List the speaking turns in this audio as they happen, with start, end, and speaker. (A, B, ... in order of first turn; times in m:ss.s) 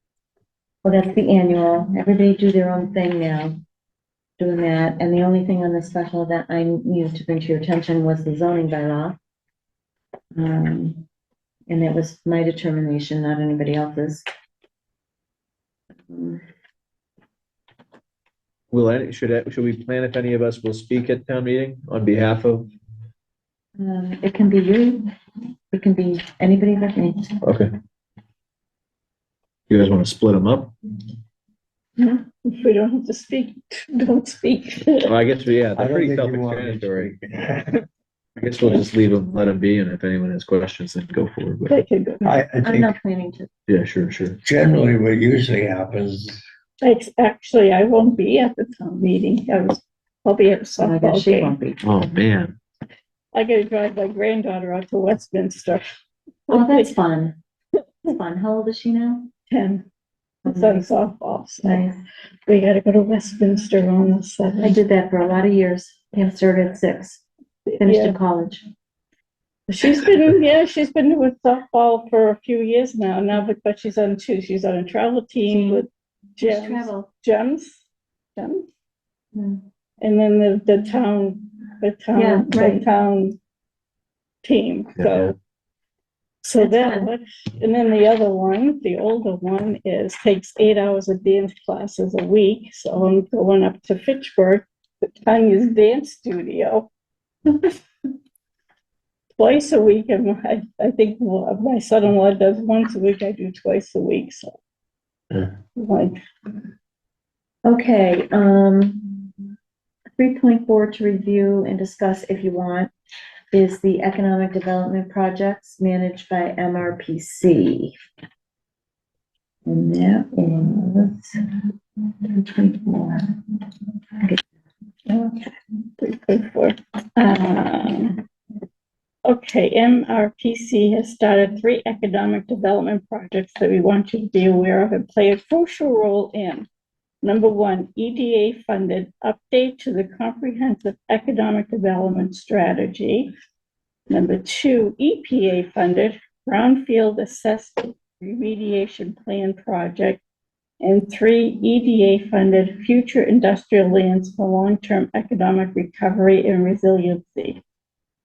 0:00.8-0:03.6 A
0:04.4-0:09.2 A
0:10.4-0:11.0 A
0:11.7-0:14.2 A
0:16.1-0:16.4 A
0:18.7-0:22.7 B
0:23.8-0:25.1 A
0:25.7-0:27.4 A
0:27.4-0:27.7 B
0:29.7-0:30.8 B
0:32.0-0:35.1 C
0:35.0-0:37.2 B
0:35.8-0:37.9 D
0:38.4-0:41.8 B
0:41.7-0:42.3 C
0:42.2-0:43.0 D
0:42.6-0:43.5 A
0:43.7-0:44.4 B
0:44.4-0:46.4 D
0:46.8-0:51.6 C
0:50.8-0:51.8 A
0:51.8-0:52.6 B
0:53.3-0:55.9 C
0:56.5-0:57.0 C
0:56.5-0:57.4 A
0:58.0-0:59.3 A
0:59.5-0:59.9 C
1:00.4-1:01.8 C
1:00.5-1:00.9 A
1:01.6-1:02.0 A
1:02.5-1:04.8 C
1:04.6-1:07.2 A
1:07.7-1:08.2 C
1:07.8-1:08.6 A
1:09.7-1:17.8 C
1:15.5-1:15.8 A
1:16.4-1:17.1 A
1:18.4-1:18.7 C
1:19.3-1:19.6 A
1:20.0-1:23.4 C
1:22.1-1:22.9 A
1:24.4-1:25.4 C
1:25.0-1:25.4 B
1:26.4-1:36.9 C
1:26.6-1:27.1 A
1:39.4-1:44.6 C
1:45.8-1:46.2 C
1:47.6-1:49.3 A
1:50.2-1:52.9 A
1:53.5-1:58.0 A
1:59.7-2:03.6 A
2:05.1-2:08.2 C
2:09.2-2:16.7 C
2:17.2-2:23.3 C
2:24.1-2:30.2 C
2:30.8-2:37.6 C